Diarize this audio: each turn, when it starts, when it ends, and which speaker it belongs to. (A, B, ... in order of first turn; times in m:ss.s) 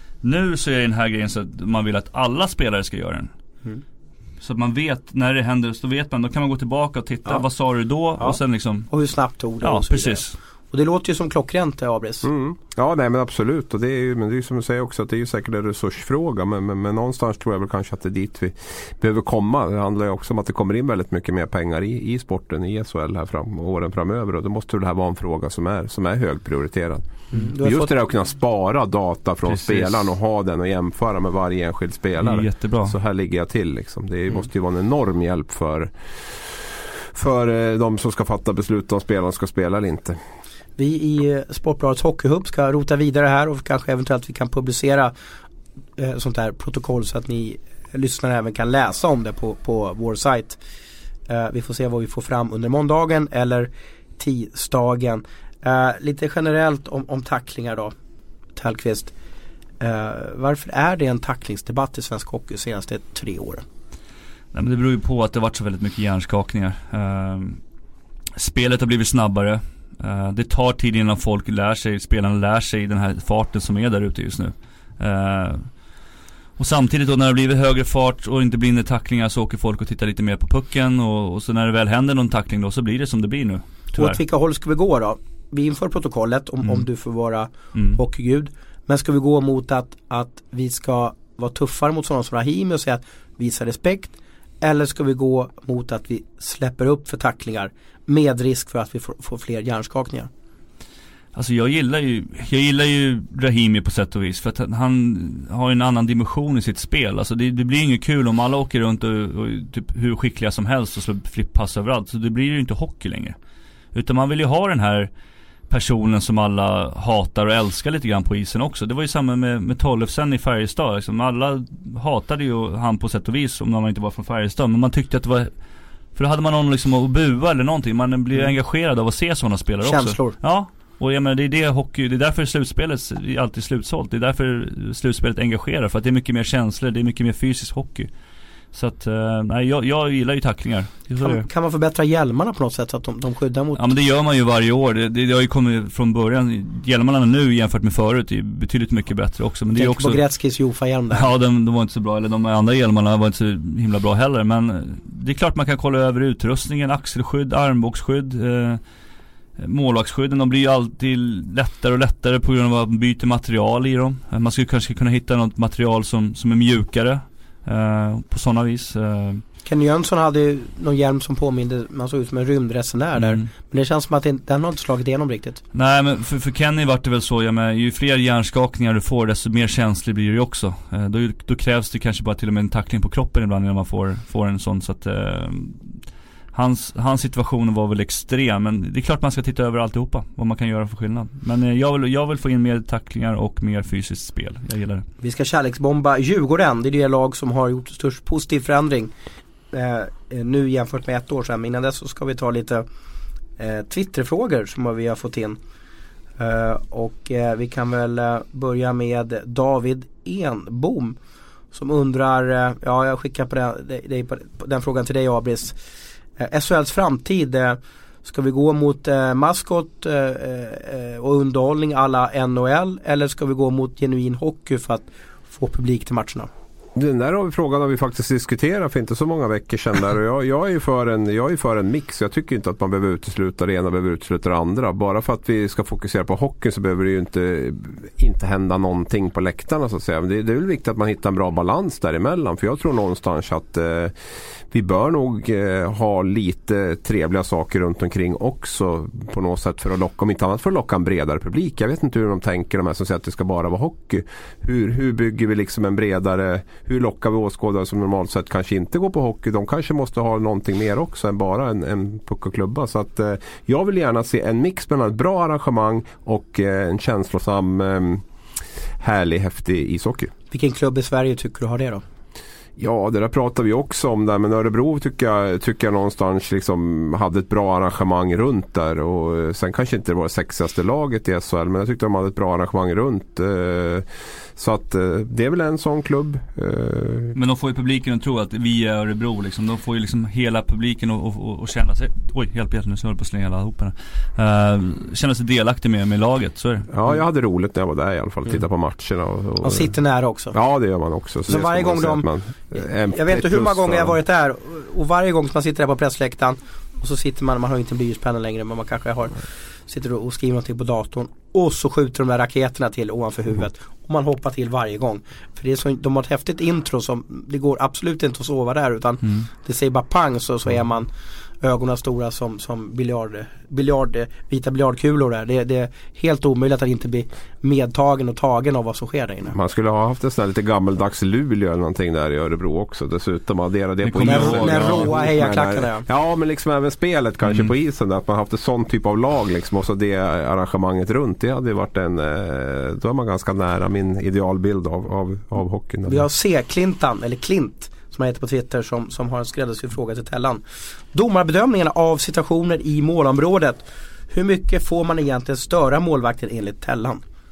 0:00.2-0:03.3 A
0:04.4-0:08.9 A
0:08.2-0:12.3 B
0:09.6-0:10.4 A
0:12.2-0:27.1 C
0:27.3-0:27.9 B
0:27.6-0:40.2 C
0:29.5-0:30.1 A
0:32.2-0:32.9 A
0:40.8-0:45.1 B
0:46.0-0:50.6 B
0:51.3-0:57.9 B
0:58.6-0:59.1 B
0:59.8-1:03.6 B
1:04.5-1:07.6 A
1:08.4-1:15.8 A
1:16.6-1:24.2 A
1:23.9-1:40.3 B
1:27.7-1:28.0 A
1:41.4-1:53.4 A
1:53.9-1:55.1 A
1:55.7-2:05.5 A
2:06.2-2:18.1 A
2:09.8-2:10.4 B
2:18.7-2:21.4 A
2:21.2-2:23.9 B
2:23.8-2:30.2 A
2:29.8-2:31.3 B
2:31.1-2:38.8 A
2:39.6-2:49.4 A
2:49.7-2:55.6 B
2:53.2-2:53.5 A
2:55.7-3:05.9 A
3:06.5-3:15.1 A
3:15.2-3:19.1 B
3:19.7-3:22.8 B
3:23.6-3:25.6 B
3:26.4-3:31.2 B
3:31.7-3:35.8 B
3:36.4-3:46.5 B
3:47.0-4:04.2 C
4:04.7-4:28.2 C
4:29.0-4:30.3 C
4:30.5-4:32.0 B
4:32.8-4:47.4 C
4:47.4-4:56.9 A
4:56.9-4:59.9 C
4:59.6-5:00.6 B
5:00.5-5:04.2 C
5:01.5-5:21.1 B
5:21.6-5:29.6 B
5:29.5-5:46.2 C
5:34.0-5:35.2 A
5:34.2-5:36.0 B
5:46.1-5:57.2 B